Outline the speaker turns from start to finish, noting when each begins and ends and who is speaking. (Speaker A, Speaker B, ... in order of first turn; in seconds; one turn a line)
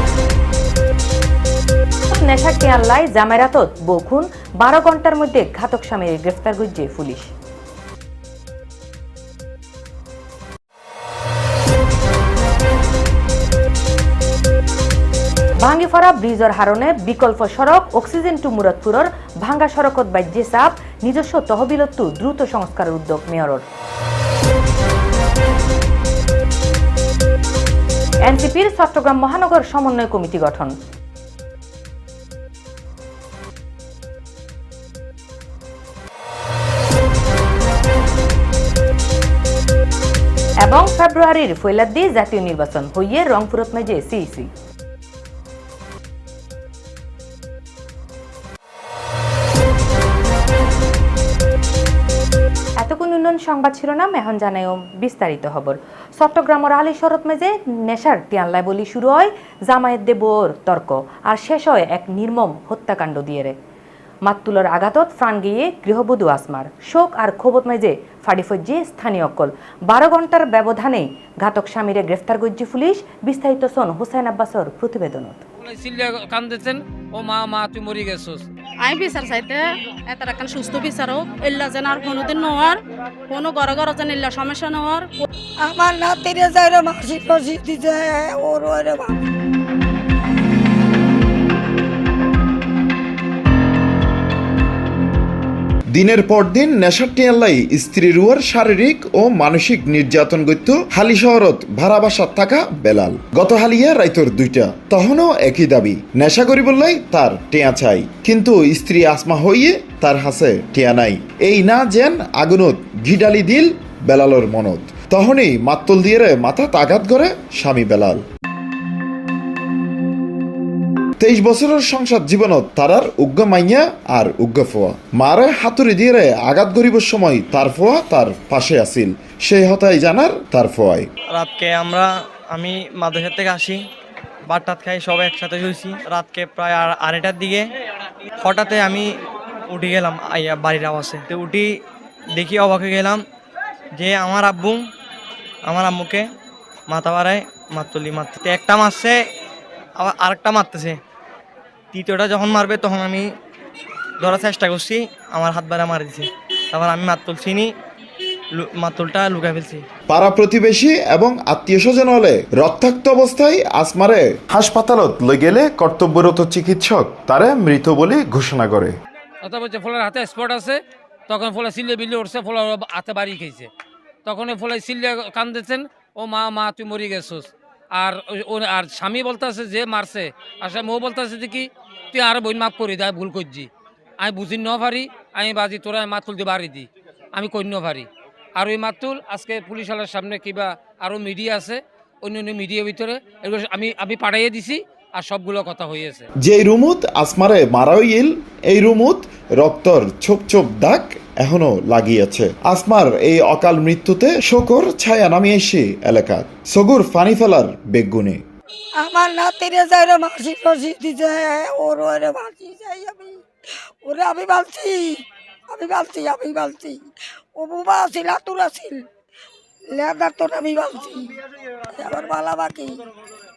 Speaker A: 2.1-7.3
Speaker A: 15.6-23.6
Speaker A: 28.2-30.7
Speaker A: 40.6-44.5
Speaker A: 52.8-63.5
Speaker A: 64.3-75.4
Speaker B: 75.7-78.5
Speaker C: 78.8-82.8
Speaker C: 83.3-85.1
Speaker D: 85.6-89.2
Speaker E: 95.9-118.2
Speaker E: 121.2-131.1
Speaker F: 131.4-133.8
Speaker F: 134.5-137.6
Speaker F: 138.4-139.0
Speaker F: 139.7-141.6
Speaker F: 142.4-143.2
Speaker F: 144.0-144.8
Speaker F: 145.7-146.2
Speaker F: 146.9-149.1
Speaker F: 150.0-150.9
Speaker F: 151.9-153.2
Speaker F: 154.2-156.2
Speaker F: 156.8-157.7
Speaker F: 158.8-159.8
Speaker E: 160.1-168.9
Speaker B: 169.4-173.7
Speaker B: 174.2-183.7
Speaker B: 184.2-196.2
Speaker E: 196.4-208.4
Speaker D: 209.0-213.4
Speaker D: 214.0-215.2
Speaker D: 215.7-217.0
Speaker D: 217.6-219.0
Speaker D: 219.9-221.3
Speaker D: 221.9-223.0